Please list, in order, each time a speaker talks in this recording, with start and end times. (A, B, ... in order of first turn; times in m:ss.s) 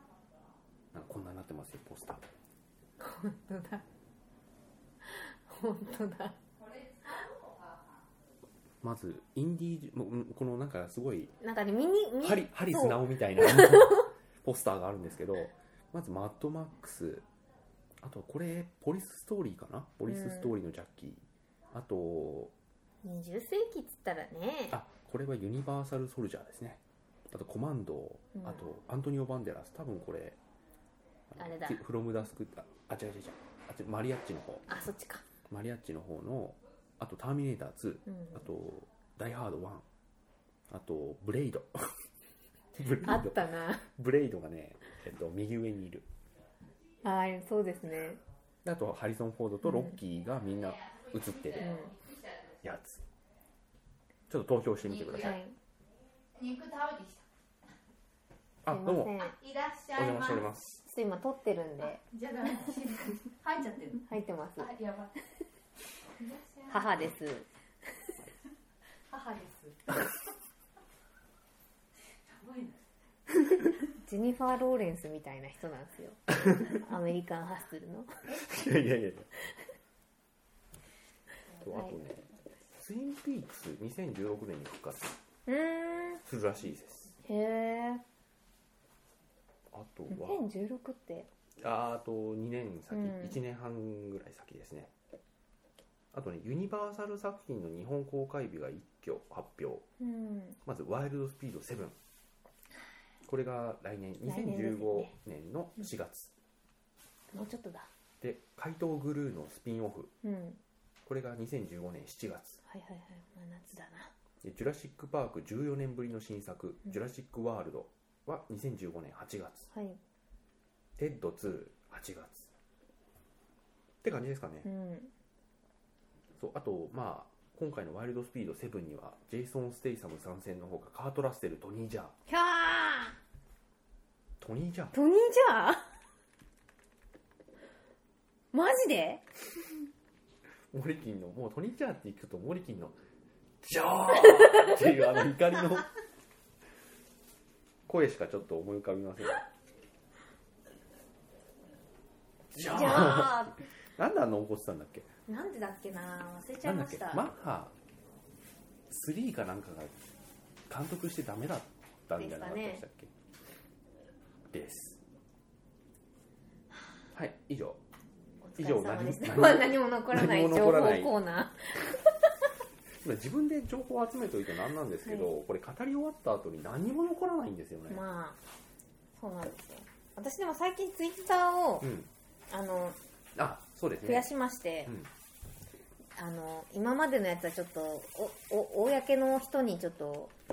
0:00.9-0:02.3 A
0:03.0-0:03.8 B
0:05.0-0:06.4 B
0:08.8-0:11.3 A
0:11.4-0:14.1 B
0:12.2-0:17.2 A
0:18.0-0:22.5 A
0:20.1-0:20.6 B
0:23.0-0:24.8 B
0:24.7-0:30.4 A
0:28.3-0:28.7 B
0:31.3-0:34.7 A
0:31.4-0:31.8 B
0:34.7-0:35.2 B
0:35.5-0:39.9 A
0:38.1-0:38.5 B
0:40.7-0:42.0 A
0:42.7-0:46.1 A
0:43.0-0:43.9 B
0:47.0-0:48.2 B
0:48.6-0:51.7 A
0:49.6-0:50.0 B
0:51.6-0:52.0 B
0:51.6-0:52.6 C
0:52.6-0:53.1 A
0:54.3-0:55.4 A
0:54.8-0:55.4 C
0:55.2-0:55.6 B
0:56.4-0:57.2 C
0:58.6-0:59.1 A
0:58.7-0:59.4 B
0:59.2-1:00.5 C
0:59.9-1:00.8 A
1:00.8-1:02.0 B
1:02.0-1:04.1 C
1:04.1-1:04.7 B
1:04.6-1:05.2 C
1:06.2-1:07.0 C
1:06.7-1:07.5 B
1:09.1-1:09.9 C
1:12.2-1:12.8 C
1:14.0-1:18.3 B
1:18.3-1:19.3 A
1:21.6-1:22.0 B
1:21.6-1:25.2 A
1:25.5-1:26.2 B
1:26.2-1:27.2 A
1:27.2-1:28.0 B
1:29.7-1:30.4 A
1:30.1-1:31.3 B
1:31.6-1:34.9 A
1:32.9-1:33.4 B
1:36.1-1:39.9 A
1:40.0-1:40.6 B
1:40.6-1:42.0 A
1:43.2-1:46.3 A
1:44.3-1:45.2 B
1:47.3-1:47.9 B
1:48.2-1:50.1 A
1:50.2-1:50.6 B
1:51.0-1:52.6 A
1:52.7-1:54.1 B
1:54.4-1:59.7 A
1:59.7-2:00.0 B
2:01.0-2:02.5 A
2:04.0-2:04.7 A
2:04.6-2:05.1 B
2:06.4-2:12.2 A
2:12.3-2:13.2 B
2:14.4-2:14.9 A
2:14.9-2:15.9 B
2:18.5-2:19.2 B
2:20.7-2:23.0 A
2:23.6-2:25.9 A
2:24.3-2:24.8 B
2:27.9-2:29.4 A
2:32.5-2:35.1 A
2:32.7-2:33.7 B
2:35.3-2:37.3 B
2:36.6-2:37.7 A
2:38.9-2:40.0 A
2:40.7-2:43.1 A
2:42.2-2:42.8 B
2:44.5-2:45.0 A
2:47.1-2:47.8 A
2:48.4-2:52.5 B
2:48.6-2:51.2 A
2:53.0-2:58.0 A
2:55.0-2:55.3 B
2:57.9-2:58.4 B
2:59.1-3:01.9 B
3:01.8-3:02.1 A
3:02.5-3:03.0 B
3:03.4-3:04.3 A
3:04.0-3:05.0 B
3:04.9-3:05.1 A
3:06.2-3:10.3 B